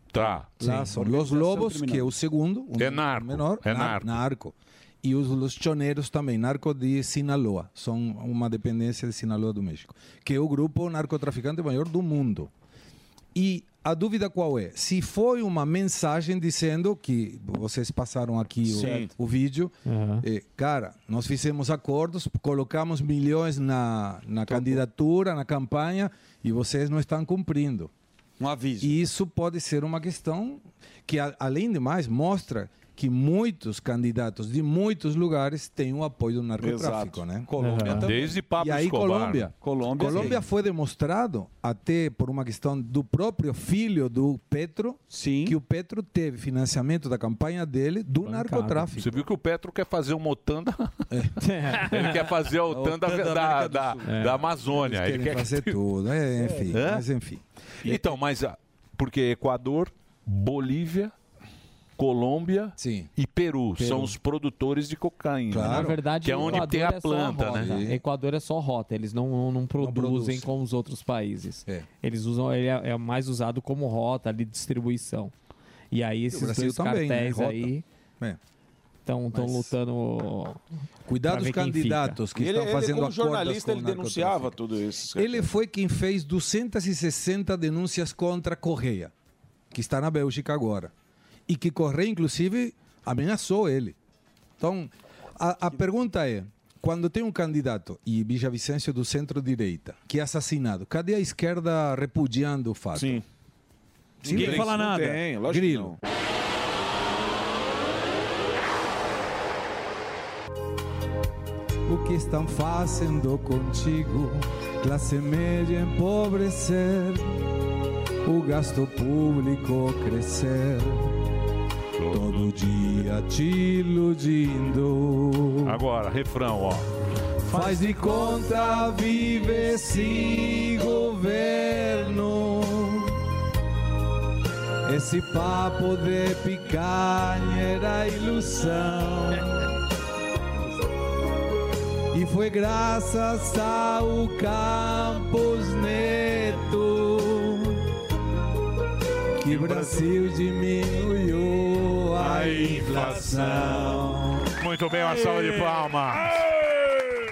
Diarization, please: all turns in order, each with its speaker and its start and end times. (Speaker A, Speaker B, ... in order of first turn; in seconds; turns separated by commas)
Speaker A: 0.1-0.6, Speaker B: 0.2-2.1, Speaker C: 0.6-12.5, Speaker A: 2.8-4.2, Speaker C: 13.3-27.9, Speaker B: 18.7-19.1, Speaker D: 18.7-19.1, Speaker E: 19.9-20.2, Speaker B: 24.5-24.8, Speaker B: 28.4-28.9, Speaker C: 28.8-38.0, Speaker D: 36.6-37.3, Speaker B: 37.5-38.4, Speaker E: 37.6-38.1, Speaker A: 37.9-39.5, Speaker C: 38.5-49.2, Speaker B: 39.6-40.4, Speaker A: 40.1-40.4, Speaker B: 45.1-45.6, Speaker E: 48.2-48.9, Speaker A: 49.0-51.0, Speaker E: 51.4-52.3, Speaker A: 51.7-55.8, Speaker B: 52.7-54.2, Speaker E: 54.1-54.4, Speaker C: 54.7-58.0, Speaker A: 56.7-57.1, Speaker A: 57.8-61.1, Speaker A: 62.0-67.8, Speaker C: 62.8-63.1, Speaker C: 63.8-64.2, Speaker C: 65.5-66.7, Speaker E: 65.6-75.3, Speaker C: 67.5-68.0, Speaker C: 69.8-70.5, Speaker E: 75.9-77.8, Speaker C: 76.3-78.4, Speaker E: 79.1-80.6, Speaker C: 79.3-79.7, Speaker C: 81.1-84.6, Speaker E: 81.3-82.2, Speaker D: 82.3-85.5, Speaker C: 85.1-89.1, Speaker C: 89.7-90.9, Speaker C: 91.5-94.0, Speaker C: 94.6-103.2, Speaker D: 103.0-103.2, Speaker C: 104.2-106.0, Speaker D: 104.2-106.0, Speaker B: 104.3-105.2, Speaker C: 111.9-117.3, Speaker C: 118.2-121.2, Speaker A: 122.0-123.0, Speaker C: 122.1-125.8, Speaker A: 125.7-126.9, Speaker C: 127.5-133.2, Speaker C: 134.8-139.7, Speaker C: 142.1-147.8, Speaker C: 149.4-154.5, Speaker D: 149.5-149.9, Speaker A: 149.8-150.0, Speaker A: 152.2-153.7, Speaker D: 152.7-153.8, Speaker A: 154.6-156.4